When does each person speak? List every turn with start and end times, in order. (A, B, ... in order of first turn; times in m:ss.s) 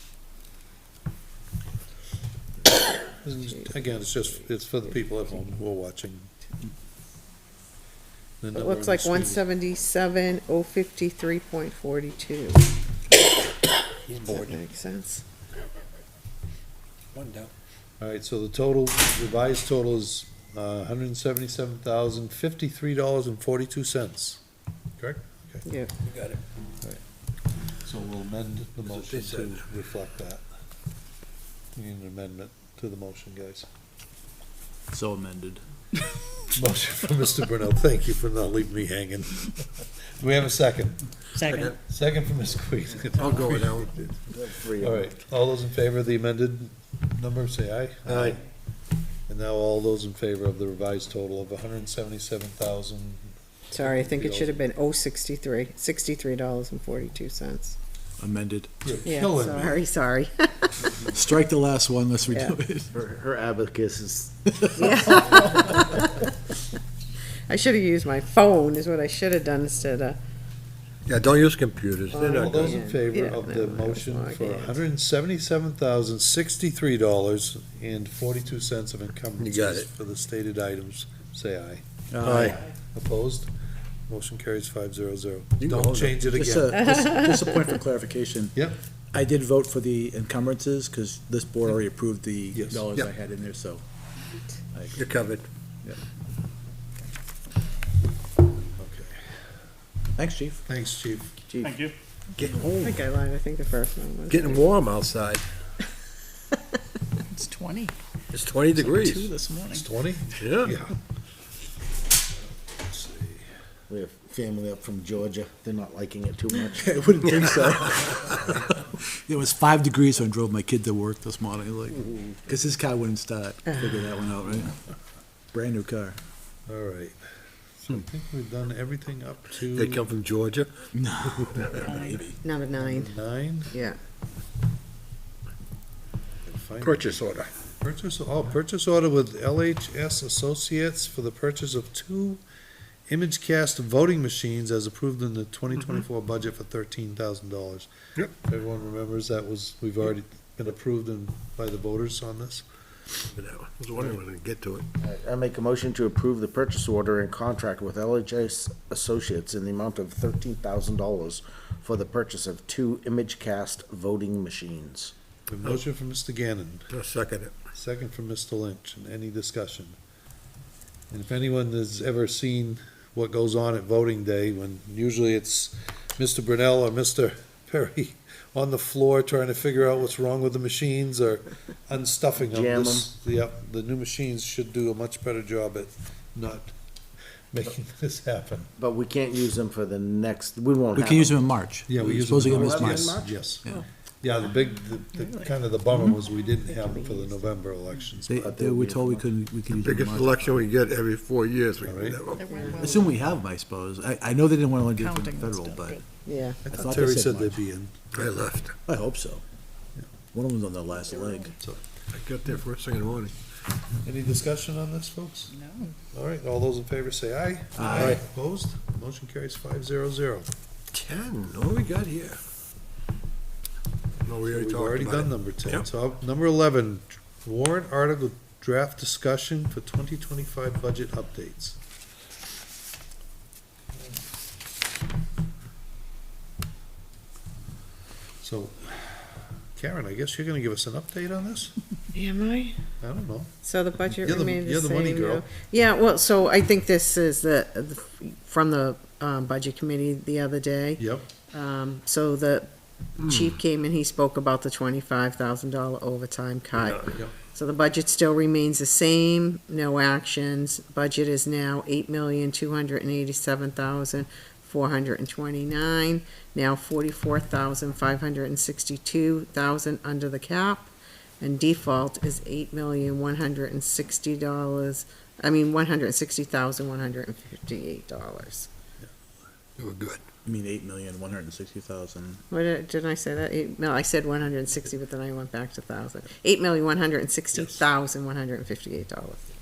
0:03.2-0:06.3 A
0:08.4-0:09.4 A
0:08.5-0:12.6 B
0:14.1-0:14.6 C
0:14.3-0:15.2 B
0:17.1-0:17.5 C
0:18.0-0:24.4 A
0:25.0-0:25.7 A
0:25.6-0:25.9 B
0:26.0-0:26.4 C
0:27.8-0:30.4 A
0:28.8-0:29.6 C
0:31.8-0:33.7 A
0:34.9-0:35.6 D
0:36.5-0:41.0 A
0:41.4-0:41.7 E
0:41.4-0:41.8 C
0:41.9-0:43.9 A
0:43.2-0:44.1 C
0:44.3-0:45.1 F
0:44.8-0:48.4 A
0:48.1-0:48.4 C
0:49.3-0:54.6 A
0:53.7-0:57.8 B
0:58.2-0:58.8 D
0:58.8-0:59.9 A
0:59.0-1:01.0 B
1:01.1-1:02.9 D
1:02.9-1:05.8 F
1:04.8-1:06.2 B
1:07.5-1:10.2 B
1:11.1-1:12.8 C
1:12.1-1:23.5 A
1:12.2-1:14.8 B
1:19.4-1:19.9 C
1:22.1-1:22.6 D
1:22.2-1:22.6 C
1:24.1-1:27.0 A
1:25.6-1:25.9 C
1:25.8-1:28.6 D
1:29.1-1:33.8 D
1:32.5-1:32.8 A
1:34.7-1:35.1 D
1:35.0-1:35.5 C
1:38.8-1:39.2 A
1:40.2-1:40.6 D
1:40.7-1:41.4 A
1:42.4-1:43.0 C
1:42.8-1:44.7 B
1:44.3-1:45.4 C
1:47.3-1:48.0 E
1:48.3-1:49.3 C
1:48.8-1:49.8 E
1:49.1-1:49.8 D
1:49.7-1:51.0 A
1:50.4-1:50.7 C
1:52.7-1:53.4 A
1:53.9-1:56.9 F
1:56.6-2:04.8 D
2:03.7-2:03.9 B
2:05.5-2:06.2 D
2:06.7-2:07.2 A
2:07.8-2:10.1 A
2:09.7-2:10.7 C
2:11.0-2:12.4 D
2:11.2-2:11.9 C
2:12.4-2:13.1 B
2:12.8-2:13.7 A
2:13.7-2:14.0 B
2:16.5-2:17.1 A
2:16.8-2:17.5 C
2:17.8-2:22.4 A
2:23.1-2:32.6 A
2:33.3-2:34.8 C
2:35.0-2:45.1 F
2:45.5-2:46.9 A
2:46.9-2:47.5 C
2:47.7-2:50.0 A
2:51.1-3:06.7 A
3:02.4-3:03.1 F
3:07.5-3:08.7 A
3:08.8-3:11.5 F
3:10.9-3:13.8 D
3:11.9-3:13.6 A
3:12.4-3:13.5 F
3:14.2-3:18.6 A
3:16.6-3:17.5 B
3:18.3-3:20.6 D
3:18.4-3:19.3 F
3:19.7-3:22.7 C
3:21.8-3:22.2 A
3:22.4-3:23.2 E
3:22.5-3:22.9 B
3:22.7-3:26.0 D
3:25.0-3:26.0 E
3:26.2-3:26.8 B
3:26.7-3:28.1 A
3:26.7-3:27.6 D
3:28.1-3:28.8 C
3:28.9-3:29.4 D
3:30.3-3:31.6 D
3:32.1-3:33.3 C
3:34.0-3:35.5 A
3:35.5-3:35.9 E
3:36.1-3:40.5 A
3:37.8-3:38.2 D
3:37.9-3:38.2 C
3:40.9-3:42.4 C
3:44.2-3:45.9 C
3:44.5-3:51.8 A
3:58.4-4:01.8 A
4:02.1-4:02.8 B
4:03.0-4:03.5 A
4:03.6-4:38.7 B
4:04.2-4:05.5 A
4:11.0-4:11.3 A
4:13.2-4:13.5 C
4:16.8-4:17.1 C
4:39.8-4:40.2 C
4:40.5-4:42.4 D
4:42.5-4:49.5 B
4:47.5-4:47.8 A